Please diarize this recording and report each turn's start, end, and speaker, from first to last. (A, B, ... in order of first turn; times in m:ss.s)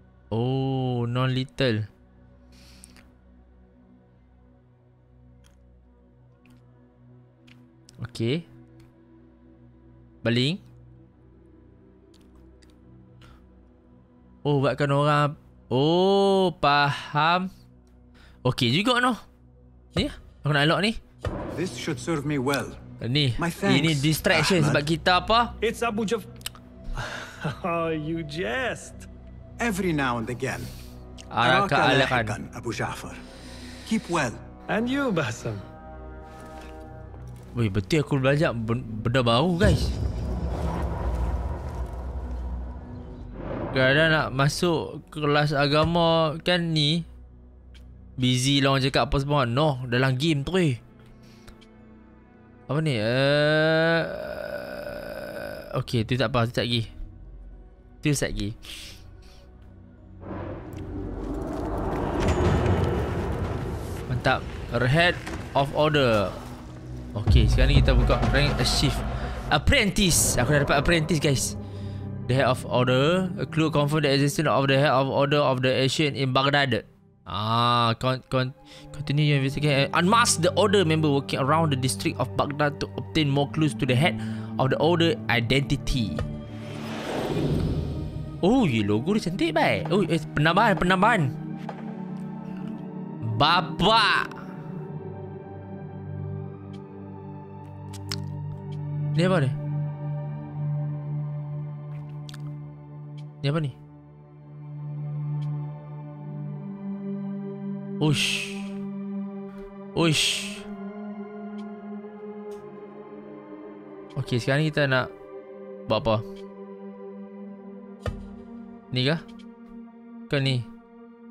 0:00.3-0:01.9 A
0:08.0-0:08.4 A
0:10.2-0:10.6 A
0:14.4-0:17.5 A
0:18.4-0:19.2 A
0:19.9-0:21.0 A
0:21.5-0:22.8 B
0:23.0-0:25.5 A
0:23.4-0:24.8 B
0:25.6-0:26.3 C
0:27.0-0:29.1 C
0:29.6-0:30.7 B
0:31.3-0:32.4 A
0:31.4-0:33.2 B
0:33.8-0:34.4 B
0:34.7-0:35.6 C
0:37.5-0:39.9 A
0:43.7-0:47.0 A
0:48.2-0:50.8 A
0:52.7-0:56.9 A
0:58.0-0:58.6 A
1:04.1-1:06.4 A
1:07.1-1:11.6 A
1:12.3-1:26.2 A
1:28.4-1:31.3 A
1:33.2-1:34.3 A
1:39.1-1:39.6 A
1:43.4-1:43.7 A
1:48.0-1:48.6 A
1:49.9-1:50.6 A
1:54.2-1:55.1 A
1:55.9-1:56.2 A
1:58.9-1:59.2 A
2:00.3-2:00.6 A